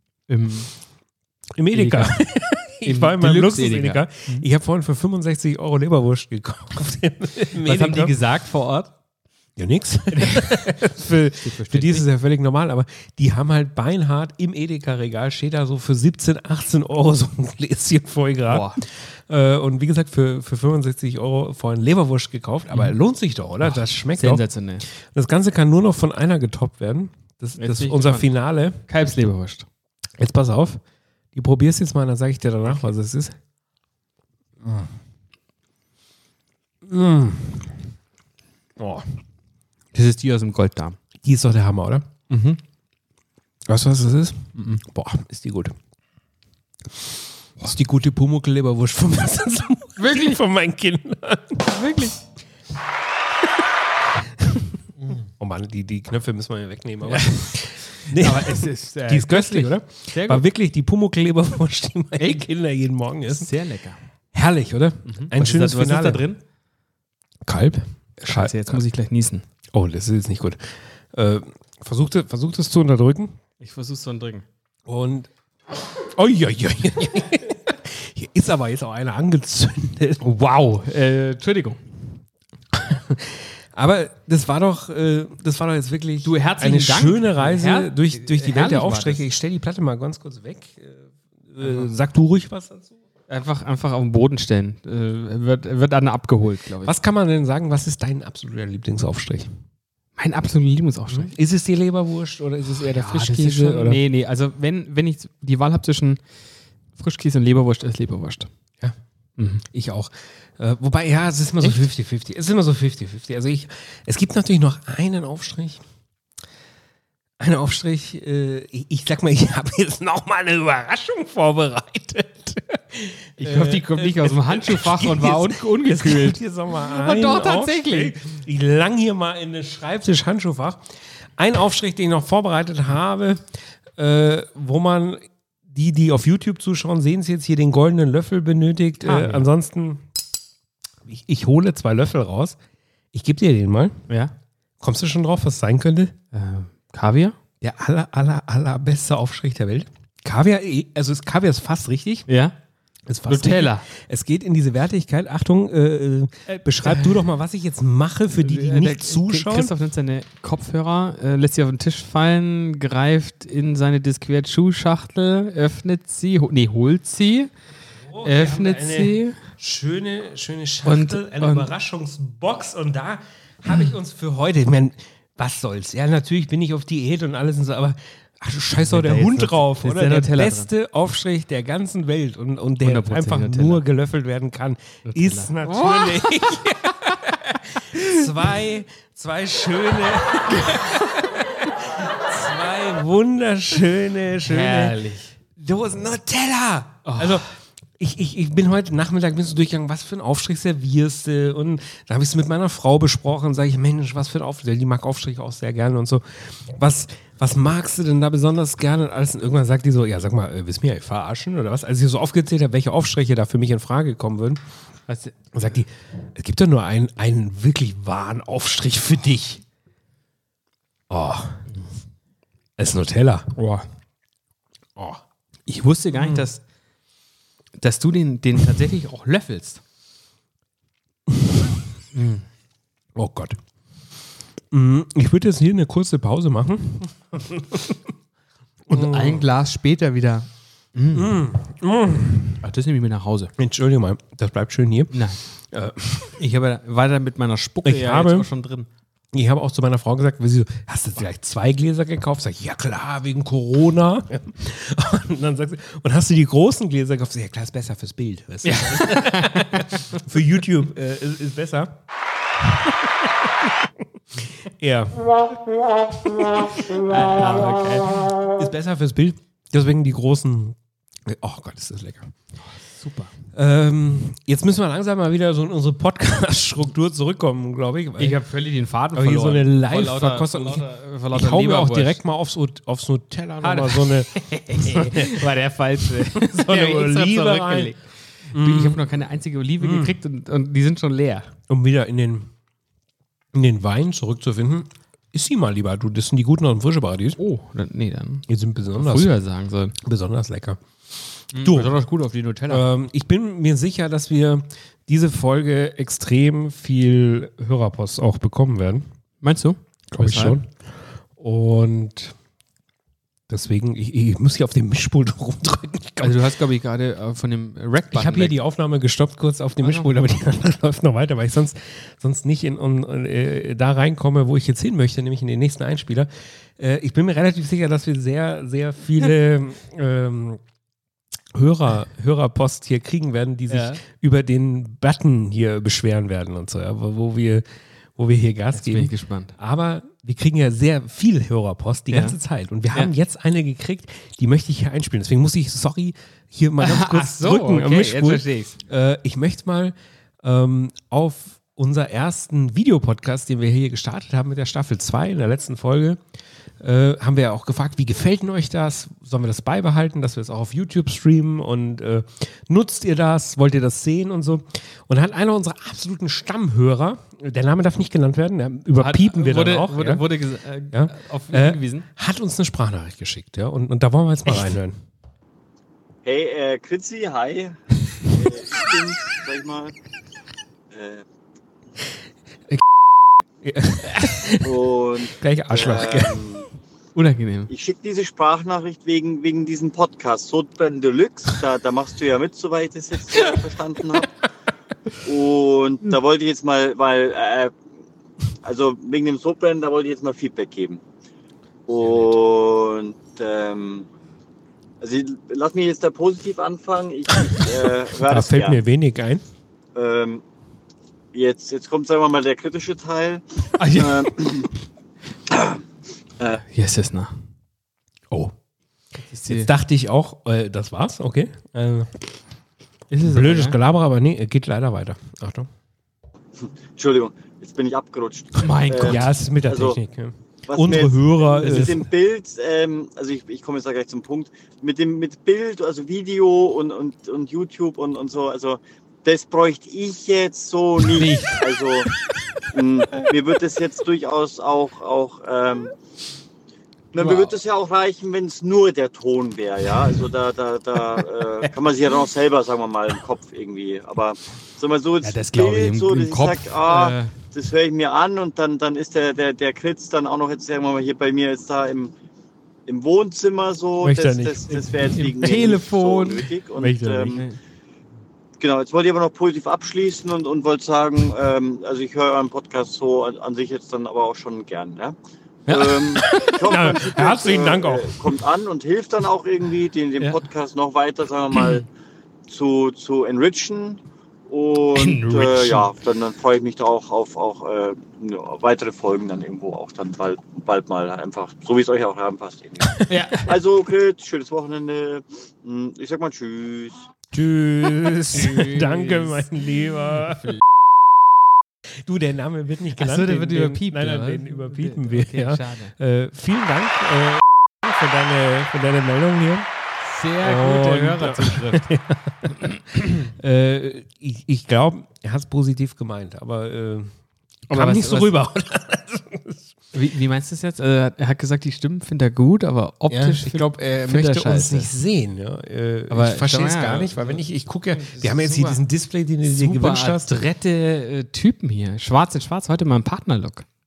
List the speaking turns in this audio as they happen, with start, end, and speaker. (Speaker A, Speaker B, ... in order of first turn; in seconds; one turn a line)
Speaker A: 0.3-0.7
Speaker B: 1.6-8.2
Speaker A: 1.7-2.2
Speaker A: 2.8-4.5
Speaker A: 7.6-8.9
Speaker B: 9.6-28.8
Speaker A: 10.2-10.8
Speaker A: 11.4-12.1
Speaker A: 18.5-18.8
Speaker A: 23.6-24.9
Speaker A: 27.6-28.3
Speaker A: 28.9-29.7
Speaker B: 30.2-30.8
Speaker B: 31.4-33.4
Speaker B: 34.6-34.9
Speaker B: 36.9-37.7
Speaker B: 38.8-39.1
Speaker A: 39.9-41.0
Speaker B: 41.2-42.1
Speaker A: 42.3-42.6
Speaker B: 43.7-45.7
Speaker A: 44.5-44.8
Speaker B: 47.6-51.7
Speaker A: 50.0-50.4
Speaker A: 51.6-52.2
Speaker B: 54.4-54.6
Speaker B: 55.4-63.5
Speaker A: 57.0-60.5
Speaker A: 62.2-62.4
Speaker A: 63.3-64.0
Speaker B: 64.3-66.2
Speaker A: 65.1-66.4
Speaker B: 67.5-68.8
Speaker A: 68.3-69.5
Speaker B: 69.7-73.3
Speaker A: 73.6-74.5
Speaker B: 74.9-75.3
Speaker B: 75.8-80.2
Speaker A: 80.2-81.9
Speaker B: 82.7-93.0
Speaker A: 86.2-89.2
Speaker A: 91.6-91.9
Speaker A: 93.3-97.0
Speaker B: 96.8-99.5
Speaker A: 100.2-101.3
Speaker B: 101.1-104.0
Speaker A: 102.7-106.2
Speaker A: 107.0-108.5
Speaker A: 109.4-109.6
Speaker B: 109.6-115.8
Speaker A: 111.6-111.9
Speaker B: 117.4-130.8
Speaker A: 123.4-128.2
Speaker B: 131.4-133.4
Speaker B: 134.0-140.0
Speaker A: 139.0-139.5
Speaker B: 141.1-142.6
Speaker B: 143.1-144.0
Speaker B: 144.8-146.1
Speaker A: 146.3-147.4
Speaker B: 147.6-152.3
Speaker A: 152.3-152.6
Speaker B: 153.1-159.7
Speaker A: 153.3-153.9
Speaker A: 156.5-157.3
Speaker A: 158.4-167.5
Speaker B: 168.1-195.0
Speaker A: 168.2-169.4
Speaker A: 170.8-171.7
Speaker A: 178.8-180.7
Speaker A: 182.8-183.8
Speaker A: 185.1-186.7
Speaker A: 187.3-188.3
Speaker A: 190.5-191.1
Speaker A: 194.4-195.3
Speaker B: 195.6-214.6
Speaker A: 197.1-197.4
Speaker A: 215.1-215.5
Speaker B: 215.5-219.6
Speaker B: 221.1-221.6
Speaker B: 222.8-223.5
Speaker A: 223.6-223.8
Speaker B: 225.0-225.2
Speaker A: 225.7-226.6
Speaker B: 226.1-226.5
Speaker A: 227.8-229.8
Speaker B: 231.3-231.8
Speaker A: 232.1-232.4
Speaker B: 233.2-233.6
Speaker B: 234.7-238.0
Speaker B: 238.9-239.4
Speaker A: 238.9-241.4
Speaker B: 241.1-242.6
Speaker A: 242.6-243.5
Speaker B: 243.6-246.4
Speaker A: 245.1-245.4
Speaker A: 246.4-248.9
Speaker B: 247.8-248.5
Speaker B: 249.3-262.0
Speaker A: 258.6-260.0
Speaker B: 263.0-263.5
Speaker B: 264.4-265.5
Speaker B: 266.2-272.3
Speaker A: 266.9-268.3
Speaker A: 272.6-273.3
Speaker B: 273.5-278.4
Speaker A: 278.2-282.2
Speaker B: 279.1-285.4
Speaker A: 283.6-291.5
Speaker B: 286.2-287.9
Speaker B: 288.5-289.1
Speaker B: 289.8-290.1
Speaker B: 291.7-292.5
Speaker B: 293.5-297.4
Speaker A: 297.4-300.0
Speaker B: 298.5-299.3
Speaker B: 300.0-300.8
Speaker B: 301.4-302.0
Speaker A: 301.5-302.9
Speaker B: 302.7-309.1
Speaker A: 309.4-310.6
Speaker B: 310.1-310.8
Speaker B: 311.4-312.4
Speaker B: 313.5-316.4
Speaker A: 316.2-318.6
Speaker B: 318.1-330.6
Speaker A: 319.8-320.1
Speaker B: 331.5-337.6
Speaker A: 333.7-334.0
Speaker B: 338.2-356.2
Speaker A: 338.7-339.6
Speaker A: 342.1-342.4
Speaker A: 346.8-348.8
Speaker B: 356.8-370.3
Speaker A: 369.0-372.1
Speaker B: 370.9-375.0
Speaker C: 376.2-379.9
Speaker C: 380.9-381.2
Speaker B: 383.6-384.7
Speaker C: 384.6-386.7
Speaker B: 385.3-386.6
Speaker A: 387.1-387.7
Speaker C: 387.7-394.3
Speaker C: 395.2-397.8
Speaker C: 398.6-401.0
Speaker C: 401.9-404.1
Speaker C: 405.0-408.8
Speaker B: 408.2-409.4
Speaker C: 409.9-410.4
Speaker C: 411.3-414.7
Speaker A: 413.8-414.7
Speaker C: 415.5-415.8
Speaker A: 416.6-417.4
Speaker A: 419.2-419.7
Speaker B: 419.5-422.2
Speaker A: 423.1-423.8
Speaker B: 423.2-425.7
Speaker C: 426.6-430.0
Speaker A: 428.6-429.4
Speaker B: 429.0-432.1
Speaker C: 430.7-442.1
Speaker A: 431.6-432.0
Speaker A: 441.0-441.8
Speaker C: 442.7-445.9
Speaker C: 447.1-462.1
Speaker A: 447.2-447.6
Speaker A: 455.2-457.3
Speaker C: 462.9-467.4
Speaker B: 464.0-466.0
Speaker A: 465.1-467.6
Speaker B: 466.8-467.4
Speaker C: 468.6-475.1
Speaker A: 475.7-476.8
Speaker C: 475.7-481.9
Speaker B: 476.2-478.4
Speaker C: 482.5-497.1
Speaker A: 484.9-485.9
Speaker A: 493.1-493.6
Speaker B: 497.3-500.6
Speaker A: 498.0-500.6
Speaker B: 502.0-509.7
Speaker A: 503.0-505.9
Speaker A: 510.0-511.9
Speaker B: 510.4-517.1
Speaker A: 512.4-513.0
Speaker A: 517.7-518.4
Speaker B: 517.7-519.8
Speaker A: 519.9-524.9
Speaker B: 523.1-530.4
Speaker A: 526.1-528.8
Speaker A: 529.4-533.7